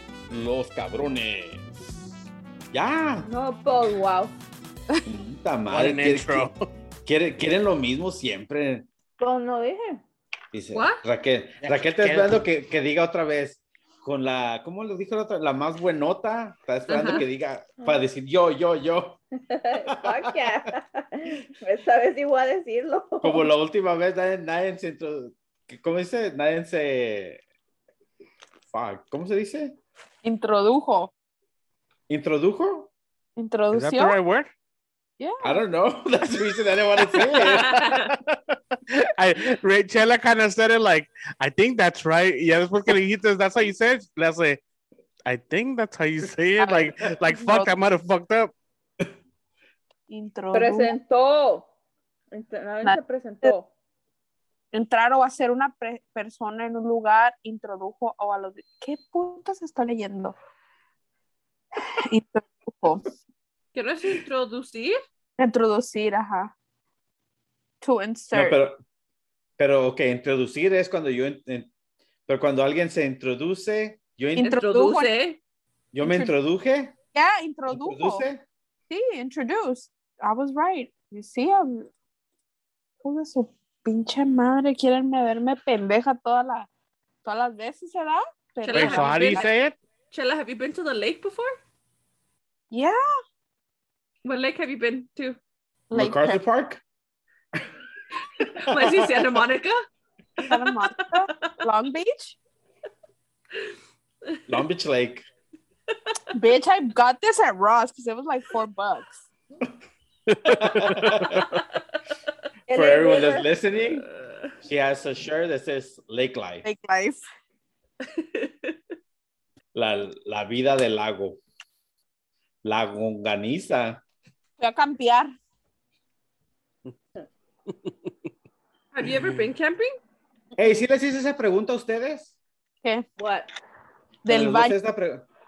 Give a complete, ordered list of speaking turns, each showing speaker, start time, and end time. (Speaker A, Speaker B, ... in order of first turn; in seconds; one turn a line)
Speaker A: 0.3-2.0
Speaker A: 2.7-3.3
Speaker B: 3.2-4.3
Speaker A: 5.0-6.5
Speaker C: 5.7-6.5
Speaker A: 7.0-8.9
Speaker B: 9.2-10.0
Speaker A: 10.5-19.2
Speaker D: 10.7-11.0
Speaker C: 11.6-12.4
Speaker D: 16.9-17.2
Speaker B: 19.5-23.5
Speaker A: 19.9-20.5
Speaker A: 23.2-27.4
Speaker A: 28.7-29.8
Speaker E: 30.2-31.1
Speaker A: 32.1-32.9
Speaker E: 33.4-34.2
Speaker C: 33.7-34.5
Speaker E: 35.2-35.6
Speaker A: 35.4-38.4
Speaker E: 37.2-37.9
Speaker D: 37.5-38.1
Speaker C: 38.9-44.6
Speaker C: 45.2-48.5
Speaker E: 46.6-47.7
Speaker E: 50.1-50.9
Speaker B: 50.5-51.7
Speaker B: 52.3-53.7
Speaker E: 52.8-53.5
Speaker E: 54.7-60.3
Speaker E: 61.8-63.1
Speaker D: 63.7-65.0
Speaker E: 65.4-66.5
Speaker E: 67.8-68.6
Speaker A: 68.3-68.8
Speaker A: 69.6-71.7
Speaker A: 72.3-74.6
Speaker E: 74.4-75.1
Speaker D: 74.4-75.4
Speaker A: 75.9-76.9
Speaker E: 76.0-76.3
Speaker E: 77.1-78.2
Speaker A: 77.7-78.4
Speaker E: 78.9-81.9
Speaker E: 83.0-86.7
Speaker E: 87.2-89.5
Speaker D: 88.6-89.5
Speaker C: 88.7-89.8
Speaker D: 90.1-91.6
Speaker E: 92.7-93.0
Speaker D: 94.2-95.4
Speaker E: 95.9-96.4
Speaker A: 95.9-96.8
Speaker D: 98.4-99.8
Speaker A: 98.7-99.3
Speaker E: 100.5-102.3
Speaker A: 104.5-105.2
Speaker D: 105.9-106.2
Speaker E: 106.3-109.3
Speaker C: 110.3-111.6
Speaker A: 110.4-111.5
Speaker B: 112.7-113.5
Speaker A: 112.7-114.1
Speaker D: 114.1-114.5
Speaker A: 114.6-116.7
Speaker E: 116.6-117.2
Speaker D: 118.0-118.8
Speaker A: 119.7-121.4
Speaker A: 122.6-124.0
Speaker E: 124.6-125.3
Speaker D: 128.9-129.9
Speaker A: 130.6-132.3
Speaker B: 133.2-133.5
Speaker E: 134.2-134.8
Speaker A: 134.3-135.3